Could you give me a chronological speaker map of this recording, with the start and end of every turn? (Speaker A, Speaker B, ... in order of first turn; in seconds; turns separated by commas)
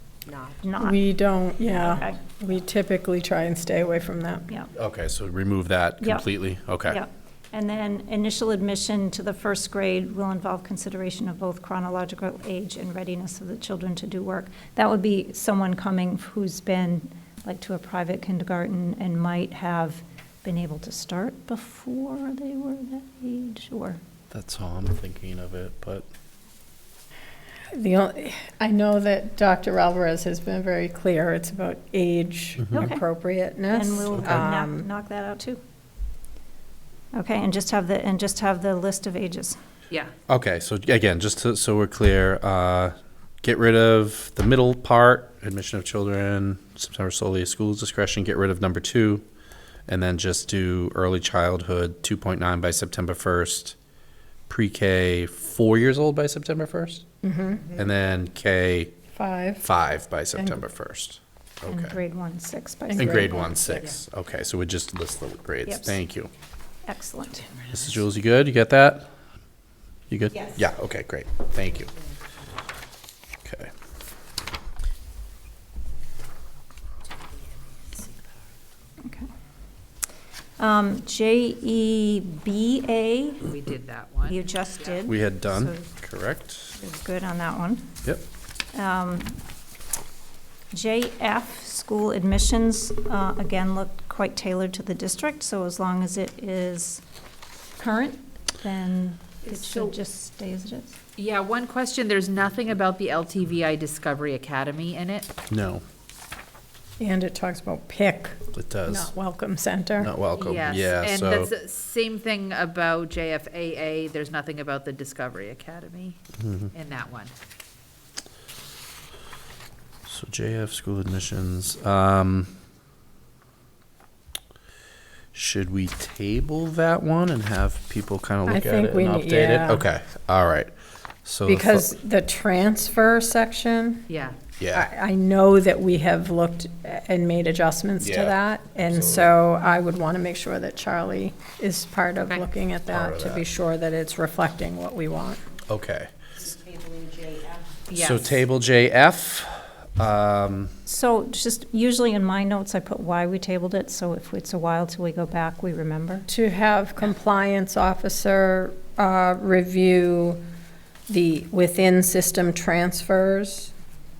Speaker A: 0.4-1.0, Speaker B: 0.8-4.5, Speaker A: 1.7-2.2, Speaker C: 4.7-7.0, Speaker A: 6.0-6.3, Speaker A: 6.8-24.0, Speaker C: 24.3-26.1, Speaker B: 27.7-34.9, Speaker A: 32.7-33.0, Speaker A: 33.7-35.6, Speaker A: 37.1-39.6, Speaker C: 40.3-49.2, Speaker C: 49.9-53.7, Speaker C: 54.5-57.0, Speaker B: 57.2-57.7, Speaker C: 57.7-59.0, Speaker B: 59.1-59.6, Speaker C: 59.6-62.0, Speaker B: 60.4-60.6, Speaker A: 61.7-63.8, Speaker B: 62.9-63.4, Speaker C: 63.0-66.3, Speaker A: 65.7-66.0, Speaker A: 66.8-67.5, Speaker C: 67.7-69.1, Speaker C: 70.1-71.9, Speaker C: 73.4-73.7, Speaker A: 79.0-79.3, Speaker A: 80.6-83.5, Speaker D: 83.4-85.1, Speaker A: 84.2-85.9, Speaker C: 85.0-86.8, Speaker A: 86.8-87.9, Speaker A: 88.7-89.4, Speaker A: 90.7-97.0, Speaker A: 97.8-101.0, Speaker D: 99.5-99.9, Speaker D: 101.2-105.3, Speaker C: 105.5-105.8, Speaker B: 107.0-110.1, Speaker C: 108.5-109.1, Speaker C: 110.0-111.5, Speaker D: 110.4-116.2, Speaker C: 116.4-116.7, Speaker D: 116.7-117.3, Speaker C: 120.0-122.5, Speaker C: 125.3-131.9, Speaker B: 128.4-129.8, Speaker B: 131.5-134.0, Speaker D: 134.1-134.4, Speaker C: 134.6-134.9, Speaker B: 134.7-145.5, Speaker C: 138.0-139.3, Speaker C: 142.9-143.4, Speaker C: 145.7-146.1, Speaker D: 147.9-148.4, Speaker C: 147.9-150.7, Speaker A: 150.8-156.3, Speaker B: 156.3-160.4, Speaker B: 161.1-163.7